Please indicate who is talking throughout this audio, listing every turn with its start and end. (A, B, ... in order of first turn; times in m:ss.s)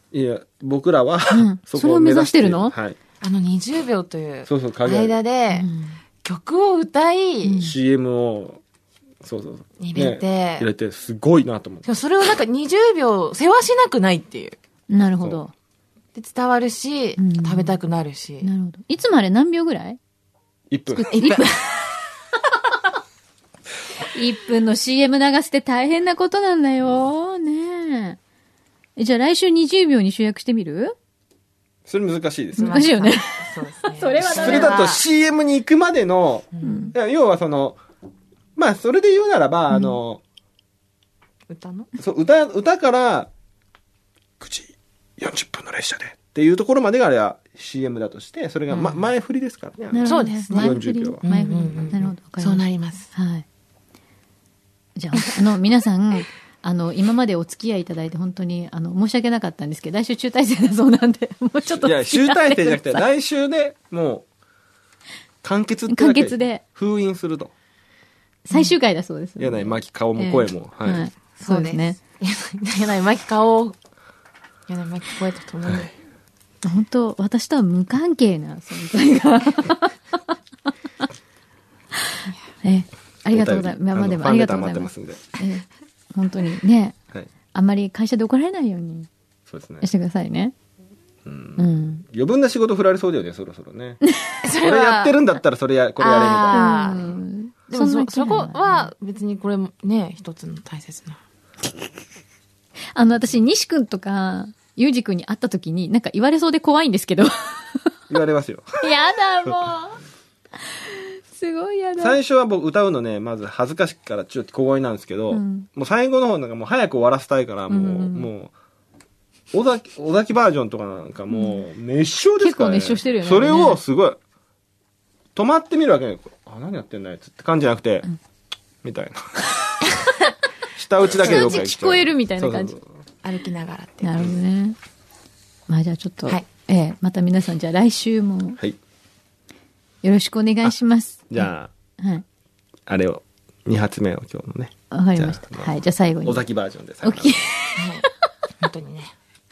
0:00.1-0:03.0 A
0:01.3-0:02.8 B
0:03.2-0:05.7 C
0:04.4-0:05.2 A
0:05.5-0:06.0 B
0:06.2-0:07.7 C
0:07.4-0:07.7 B
0:07.6-0:08.6 A
0:09.2-0:11.9 A
0:09.8-0:10.7 C
0:11.8-0:14.6 C
0:14.9-0:15.5 B
0:16.1-0:18.5 C
0:17.2-0:17.8 B
0:18.4-0:20.0 B
0:20.7-0:21.1 A
0:20.9-0:21.5 B
0:21.1-0:21.7 C
0:24.1-0:28.2 B
0:29.0-0:31.0 B
0:31.9-0:32.9 A
0:32.6-0:34.9 B
0:32.6-0:35.0 C
0:34.2-0:37.8 A
0:36.6-0:36.9 C
0:36.6-0:36.9 B
0:38.6-0:40.2 A
0:41.5-0:41.9 C
0:42.0-0:43.3 A
0:44.4-0:51.9 A
0:48.7-0:49.1 C
0:49.9-0:53.4 B
0:50.0-0:53.1 C
0:55.0-1:03.0 B
1:01.7-1:04.3 A
1:05.4-1:07.5 A
1:05.9-1:06.6 B
1:08.5-1:12.0 B
1:09.4-1:11.1 A
1:11.4-1:13.8 C
1:14.7-1:16.0 C
1:16.6-1:20.0 B
1:22.6-1:27.0 B
1:23.3-1:25.2 A
1:27.5-1:29.1 B
1:29.5-1:29.9 A
1:29.8-1:30.5 B
1:31.2-1:34.0 A
1:31.6-1:32.0 B
1:34.4-1:35.3 C
1:34.6-1:36.7 A
1:36.0-1:37.2 C
1:36.5-1:38.9 B
1:37.7-1:41.2 C
1:43.0-1:47.9 B
1:48.1-1:48.9 A
1:48.8-1:50.0 B
1:50.8-1:52.2 B
1:52.0-1:58.5 A
1:55.3-1:55.7 B
1:57.7-1:58.3 B
1:59.5-2:04.2 A
2:01.3-2:01.6 B
2:02.4-2:03.8 B
2:05.3-2:08.1 A
2:08.8-2:09.3 A
2:10.8-2:12.8 A
2:11.1-2:12.8 B
2:11.3-2:11.6 C
2:13.2-2:14.2 C
2:14.0-2:14.8 B
2:15.7-2:18.6 B
2:20.0-2:22.2 B
2:21.3-2:21.7 A
2:22.9-2:27.3 A
2:24.9-2:26.5 B
2:27.0-2:28.1 B
2:27.8-2:28.0 C
2:28.6-2:29.1 C